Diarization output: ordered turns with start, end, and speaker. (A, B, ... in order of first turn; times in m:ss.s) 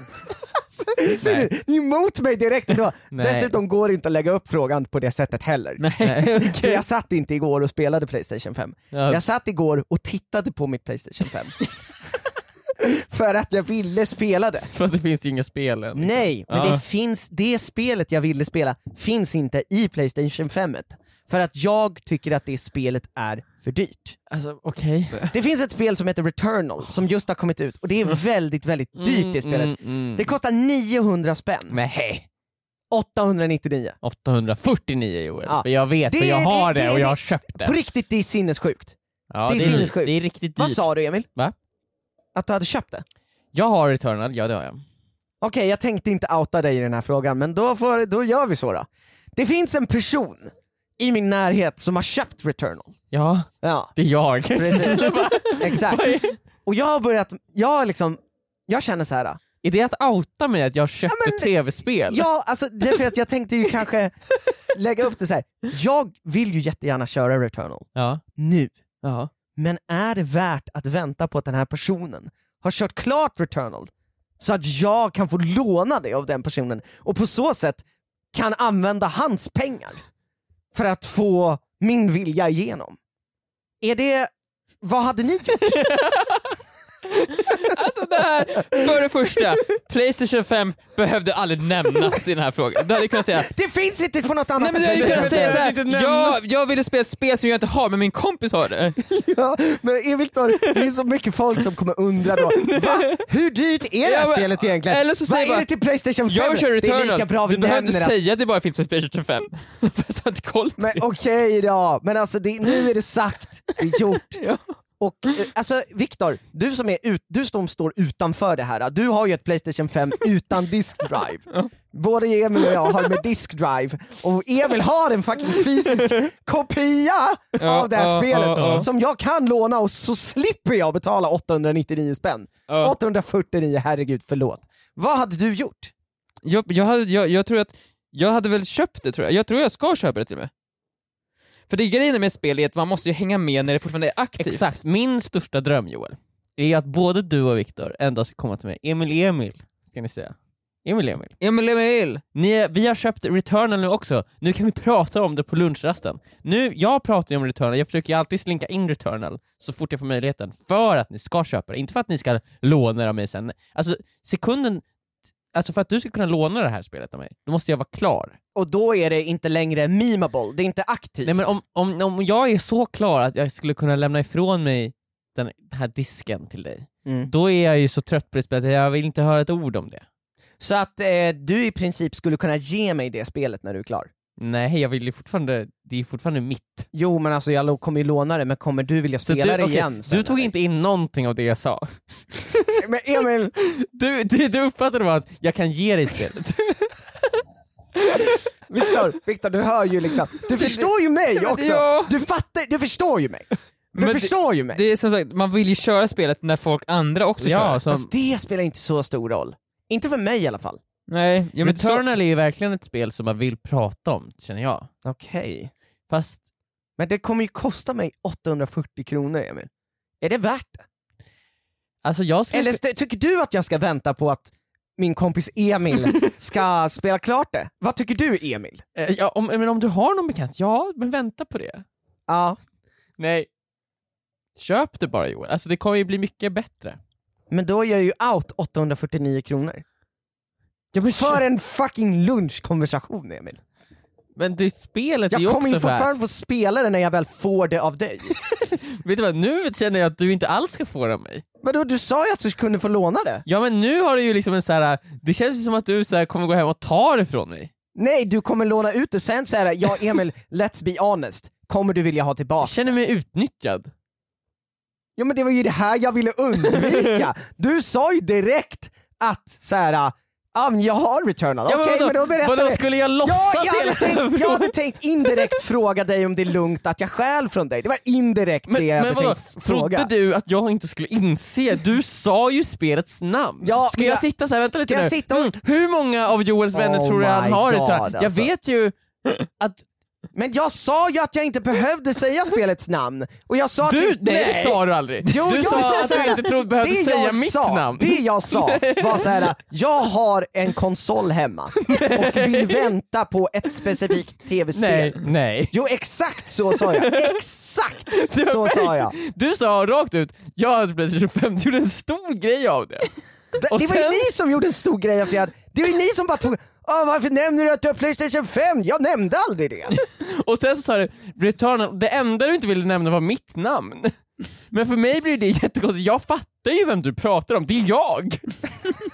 0:00.5-0:11.6 A
0:01.2-0:01.5 B
0:03.1-0:03.6 B
0:05.8-0:06.8 C
0:06.0-0:06.5 B
0:08.9-0:09.3 B
0:12.8-0:14.7 A
0:14.7-0:16.8 B
0:16.0-0:24.2 A
0:24.3-0:25.3 B
0:25.3-0:31.8 A
0:29.0-0:30.3 B
0:31.7-0:32.3 B
0:32.9-0:34.0 A
0:34.0-0:37.8 B
0:35.5-0:39.0 A
0:39.3-0:41.6 B
0:39.5-0:41.3 A
0:42.4-0:43.0 A
0:43.5-0:44.8 B
0:45.4-0:53.0 A
0:53.1-0:56.4 B
0:53.6-0:54.0 A
0:54.5-0:56.1 A
0:56.6-0:59.4 A
0:59.6-1:02.3 B
1:01.1-1:01.5 A
1:02.0-1:04.2 A
1:04.7-1:08.8 A
1:08.0-1:08.2 B
1:09.0-1:09.3 B
1:09.6-1:20.0 A
1:20.7-1:23.0 A
1:23.8-1:24.3 A
1:24.8-1:25.9 A
1:25.7-1:26.5 B
1:27.3-1:33.5 C
1:33.3-1:35.6 A
1:34.6-1:39.0 C
1:34.9-1:36.4 B
1:39.0-1:48.2 A
1:42.5-1:43.2 B
1:44.0-1:45.7 C
1:46.3-1:51.0 C
1:50.8-1:54.4 A
1:54.3-1:54.6 C
1:55.0-2:15.9 A
2:07.6-2:08.9 C
2:08.6-2:08.9 B
2:12.7-2:13.0 C
2:16.4-2:20.5 C
2:21.7-2:24.8 C
2:24.4-2:31.4 B
2:31.4-2:32.2 C
2:32.4-2:44.8 B
2:45.5-2:48.4 B
2:48.6-2:51.5 A
2:51.2-3:00.0 B
3:00.6-3:04.1 A
3:04.4-3:06.9 B
3:06.9-3:10.5 A
3:09.2-3:12.8 B
3:12.8-3:13.5 A
3:13.6-3:17.0 B
3:18.7-3:24.8 A
3:20.6-3:22.1 C
3:23.9-3:27.8 C
3:27.4-3:28.1 B
3:27.9-3:30.8 A
3:31.1-3:32.0 C
3:31.6-3:34.9 B
3:35.0-3:35.7 A
3:36.1-3:36.4 B
3:37.0-3:39.7 A
3:40.2-3:40.8 A
3:42.0-3:42.8 B
3:42.5-3:48.8 A
3:49.0-3:51.8 B
3:52.3-3:52.6 A
3:53.2-3:53.5 B
3:54.6-3:57.0 B
3:57.5-3:59.8 A
4:00.9-4:01.4 B
4:01.1-4:03.6 A
4:04.4-4:06.1 B
4:05.3-4:08.4 A
4:08.4-4:11.4 B
4:11.6-4:13.4 A
4:13.5-4:17.7 B
4:18.0-4:22.9 A
4:22.6-4:23.9 B
4:25.2-4:40.1 A
4:31.7-4:34.7 B
4:38.7-4:49.0 B
4:43.6-4:44.3 A
4:44.8-4:45.6 A
4:46.7-4:48.5 A
4:49.6-4:49.8 B
4:50.3-5:09.2 A
4:53.8-4:59.4 B
5:01.8-5:02.9 B
5:04.7-5:05.8 B
5:06.7-5:07.4 B
5:08.1-5:13.1 B
5:13.6-5:20.0 A
5:13.7-5:14.3 B
5:20.0-5:28.6 B